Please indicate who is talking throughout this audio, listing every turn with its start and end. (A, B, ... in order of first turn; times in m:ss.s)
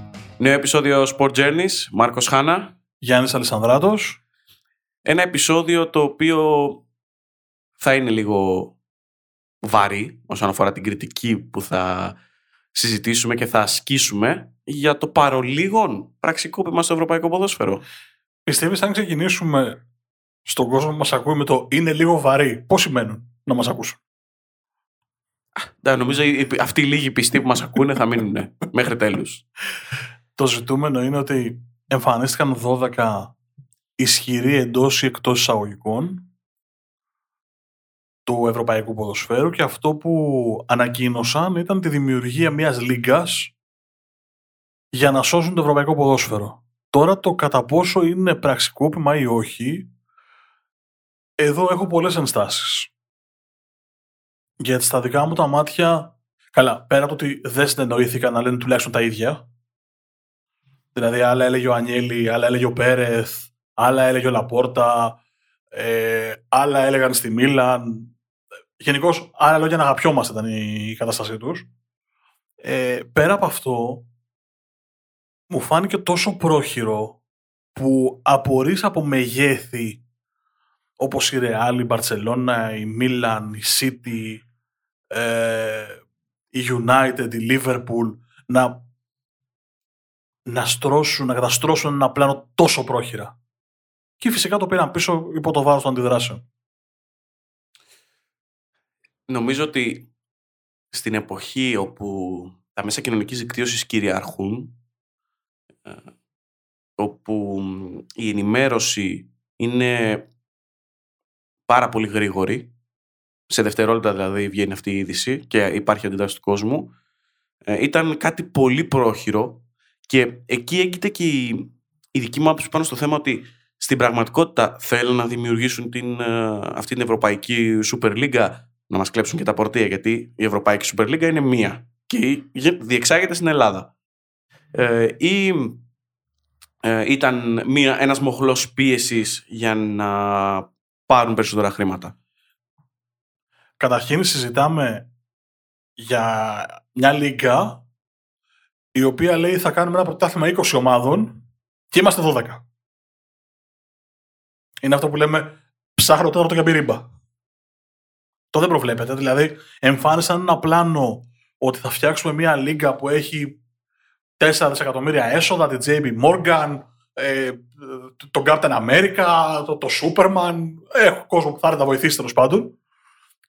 0:00.4-0:02.7 A
0:03.0-0:04.2 B
0:05.0-0:06.8 A
0:07.8-0:08.8 A
0:09.6-0:12.2 A
0:12.7-0:17.8 A
0:18.5-0:19.8 B
0:20.5-0:24.0 B
0:25.6-0:29.4 A
0:30.4-0:33.3 B
0:34.0-0:36.2 B
0:38.3-0:43.5 B
0:44.9-0:49.9 B
0:51.4-0:52.9 B
0:54.6-0:59.4 B
1:01.0-1:05.2 B
1:05.7-1:08.1 B
1:08.8-1:11.7 B
1:12.6-1:14.0 B
1:15.5-1:17.2 B
1:17.8-1:20.0 B
1:21.0-1:24.4 B
1:25.1-1:26.0 B
1:26.5-1:28.8 B
1:30.5-1:33.4 B
1:34.2-1:36.4 B
1:39.3-1:40.1 A
1:40.9-1:44.8 A
1:47.0-1:50.3 A
1:51.7-1:52.7 A
1:53.5-1:56.9 A
1:57.7-2:13.9 A
2:14.7-2:15.8 A
2:16.8-2:22.2 A
2:23.8-2:25.1 B
2:26.0-2:27.8 B
2:29.0-2:32.6 B
2:34.8-2:37.1 B
2:38.5-2:43.6 B
2:44.4-2:52.8 B